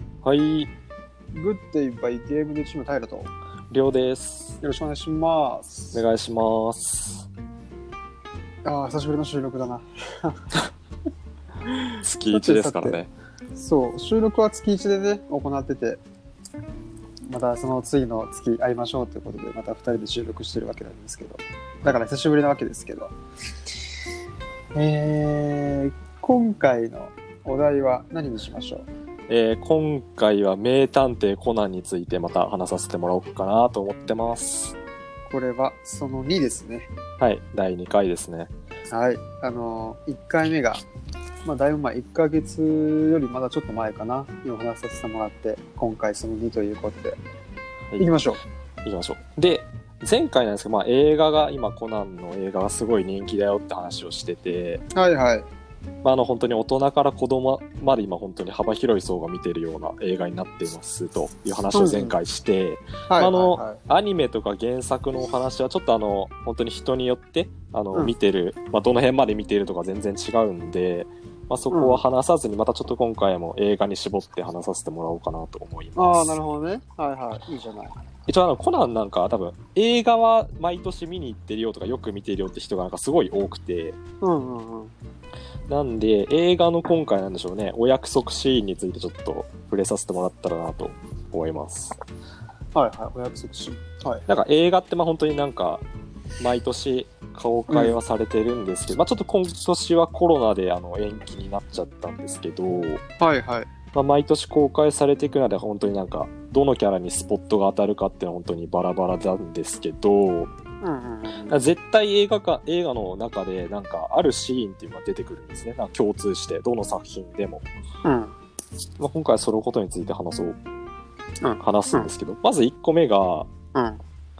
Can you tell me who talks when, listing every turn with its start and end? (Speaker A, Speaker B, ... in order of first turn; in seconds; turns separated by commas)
Speaker A: 0.2-0.7, Speaker B: 1.3-3.3, Speaker A: 3.7-4.6, Speaker B: 4.6-6.0, Speaker A: 5.9-7.3, Speaker B: 8.6-10.3, Speaker A: 12.0-13.1, Speaker B: 12.3-13.0, Speaker B: 13.5-16.0, Speaker B: 17.3-23.1, Speaker B: 24.7-28.9, Speaker A: 29.3-34.8, Speaker B: 35.3-36.9, Speaker A: 37.2-38.5, Speaker B: 38.9-40.8, Speaker B: 41.4-47.2, Speaker B: 48.0-48.4, Speaker A: 48.8-54.8, Speaker B: 54.9-55.5, Speaker A: 56.0-76.4, Speaker B: 61.7-62.2, Speaker B: 63.1-63.8, Speaker B: 71.7-72.0, Speaker B: 76.0-77.9, Speaker A: 78.3-84.0, Speaker B: 84.2-84.9, Speaker A: 85.7-91.9, Speaker B: 92.7-94.2, Speaker A: 94.3-95.8, Speaker A: 96.4-103.0, Speaker B: 97.7-98.0, Speaker B: 103.2-103.7, Speaker A: 103.9-110.5, Speaker B: 110.8-111.6, Speaker A: 111.5-117.7, Speaker B: 118.0-118.3, Speaker A: 119.0-120.6, Speaker B: 121.4-122.1, Speaker A: 121.6-123.5, Speaker B: 123.7-124.0